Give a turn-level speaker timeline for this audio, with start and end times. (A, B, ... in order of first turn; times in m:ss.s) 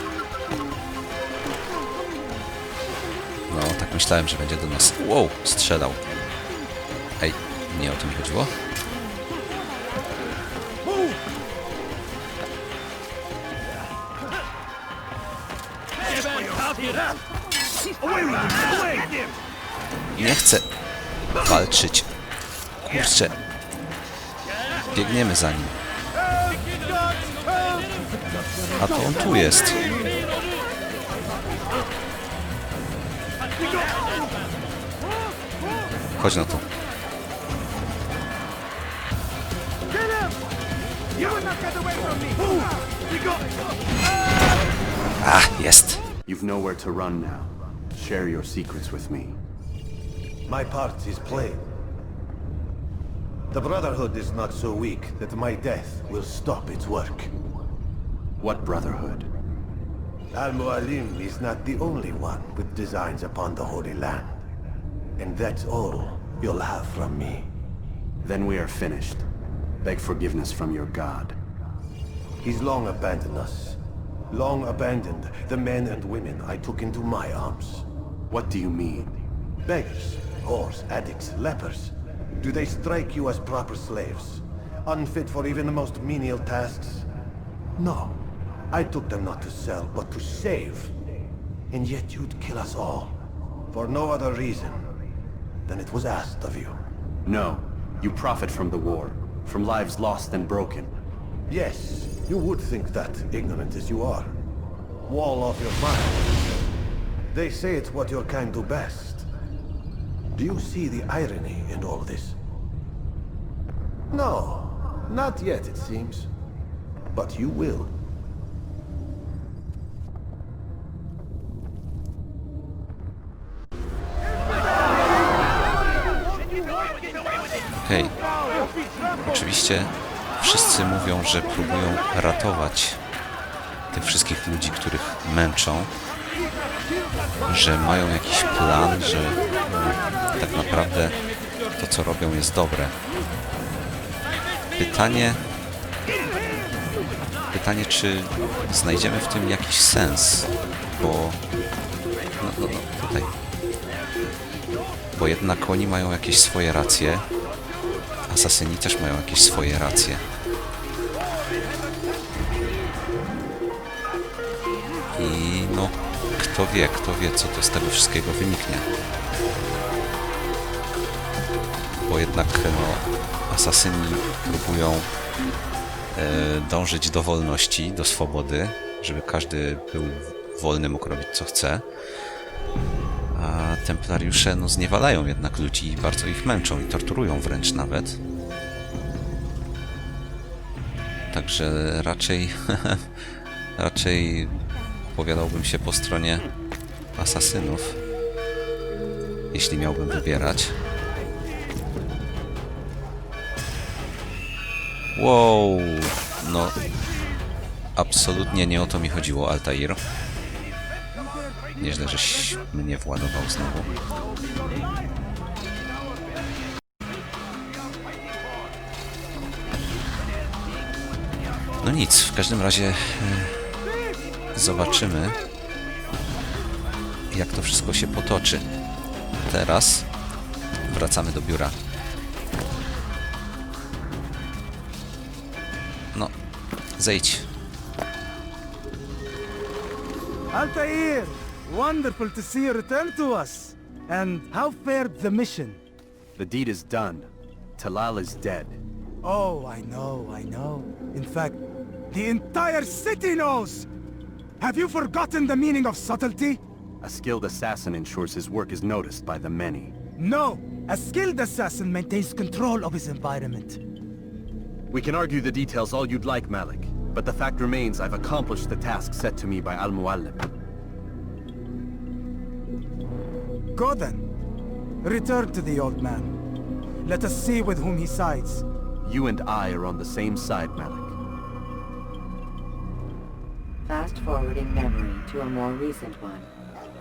0:03.5-0:06.0 A
0:07.2-0:08.5 A
0:20.1-0:20.7 A
0:21.4-0:22.1 A
0:22.8-0:23.4 A
0:24.9-0:25.8 A
0:28.8-0:29.9 A
0:36.2-0:36.6 A
0:41.1-0:42.7 B
0:45.2-0:46.0 A
0:46.2-0:49.4 C
0:50.4-0:51.7 D
0:53.5-0:57.3 D
0:58.4-0:59.3 C
1:00.3-1:04.4 D
1:05.2-1:07.5 D
1:08.2-1:09.2 C
1:09.8-1:11.3 C
1:12.4-1:17.9 D
1:18.3-1:19.2 C
1:19.6-1:27.1 D
1:27.8-1:31.0 D
1:31.7-1:33.2 D
1:33.7-1:34.8 D
1:35.7-1:36.8 D
1:37.2-1:40.9 C
1:41.5-1:44.4 D
1:45.1-1:46.4 D
1:47.3-1:49.3 D
1:50.3-1:52.4 D
1:54.1-1:56.3 D
1:57.1-1:58.0 D
2:07.7-2:08.2 A
2:09.2-2:13.0 A
2:13.9-2:15.9 A
2:17.4-2:21.2 A
2:21.7-2:23.0 A
2:24.7-2:25.4 A
2:27.5-2:31.4 A
2:32.4-2:33.3 A
2:35.1-2:37.3 A
2:38.3-2:40.2 A
2:45.1-2:48.9 A
2:52.0-2:55.1 A
2:56.1-3:01.8 A
3:03.3-3:08.2 A
3:11.3-3:13.2 A
3:13.8-3:14.6 A
3:15.1-3:16.5 A
3:17.2-3:18.0 A
3:19.5-3:20.8 A
3:25.1-3:26.8 A
3:28.0-3:30.0 A
3:31.8-3:33.9 A
3:41.8-3:43.9 A
3:44.5-3:45.4 A
3:47.3-3:48.6 A
3:49.4-3:50.1 A
3:50.8-3:51.8 A
3:57.0-3:57.5 A
4:00.5-4:05.8 B
4:06.4-4:08.8 C
4:09.2-4:11.6 B
4:12.1-4:13.9 B
4:14.6-4:16.6 B
4:17.0-4:19.9 C
4:20.2-4:23.8 B
4:24.9-4:30.5 C
4:33.7-4:34.3 B
4:35.0-4:36.4 B
4:37.0-4:38.6 B
4:39.0-4:41.1 C
4:43.8-4:46.5 E